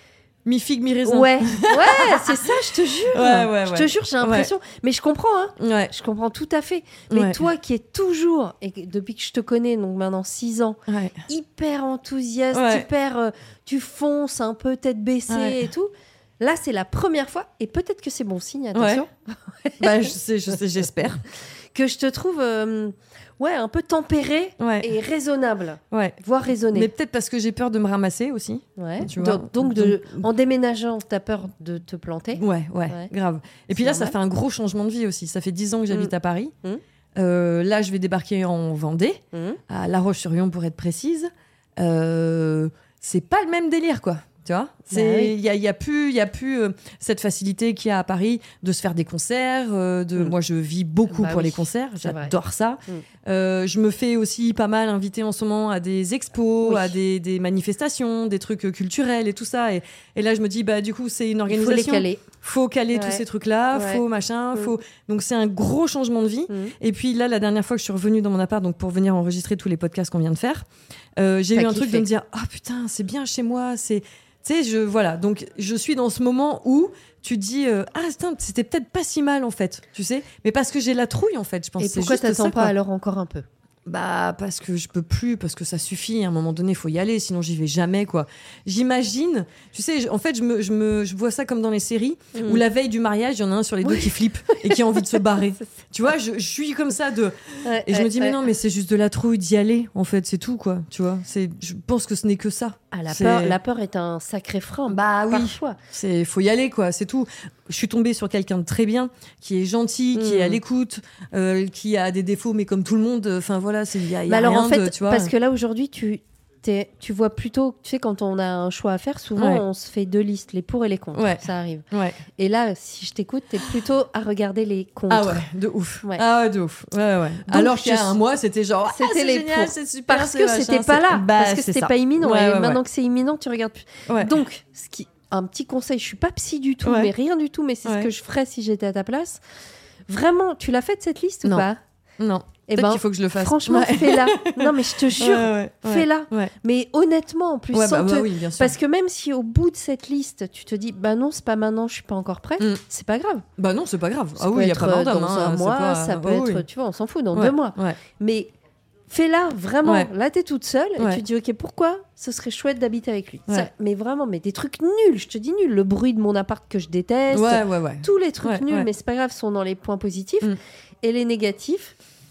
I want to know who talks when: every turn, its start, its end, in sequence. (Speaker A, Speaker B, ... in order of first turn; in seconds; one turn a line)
Speaker A: 0.5-4.5
Speaker B: 1.0-20.1
Speaker A: 5.6-5.9
Speaker A: 7.1-7.4
Speaker A: 10.9-11.2
Speaker A: 12.5-12.9
Speaker A: 15.3-15.7
Speaker A: 18.7-19.0
Speaker A: 19.8-21.2
Speaker B: 21.7-26.9
Speaker A: 24.6-24.9
Speaker A: 25.9-26.2
Speaker A: 26.7-30.3
Speaker B: 28.8-33.1
Speaker A: 32.3-36.5
Speaker B: 33.8-34.2
Speaker B: 35.9-36.8
Speaker A: 37.2-82.8
Speaker B: 39.3-39.6
Speaker B: 44.9-45.4
Speaker B: 51.1-53.0
Speaker B: 56.6-57.0
Speaker B: 61.5-62.2
Speaker B: 62.9-64.8
Speaker B: 66.5-66.7
Speaker B: 71.5-72.1
Speaker B: 81.8-83.5
Speaker A: 83.9-103.6
Speaker B: 92.3-92.6
Speaker B: 93.8-95.3
Speaker B: 97.6-98.4
Speaker B: 102.9-105.8
Speaker A: 104.9-115.3
Speaker B: 110.1-110.6
Speaker B: 114.3-125.4
Speaker A: 119.4-119.6
Speaker A: 121.1-122.2
Speaker A: 125.1-132.8
Speaker B: 127.5-128.2
Speaker B: 128.9-139.4
Speaker A: 134.1-134.4
Speaker A: 136.8-137.1
Speaker A: 137.8-138.1
Speaker B: 140.1-141.8
Speaker A: 142.2-146.5
Speaker B: 142.7-153.5
Speaker A: 147.7-148.8
Speaker A: 153.6-156.7
Speaker B: 154.4-158.5
Speaker A: 157.3-158.0
Speaker B: 159.1-170.5
Speaker A: 159.8-160.1
Speaker A: 161.0-161.2
Speaker A: 167.3-168.9
Speaker B: 171.0-171.9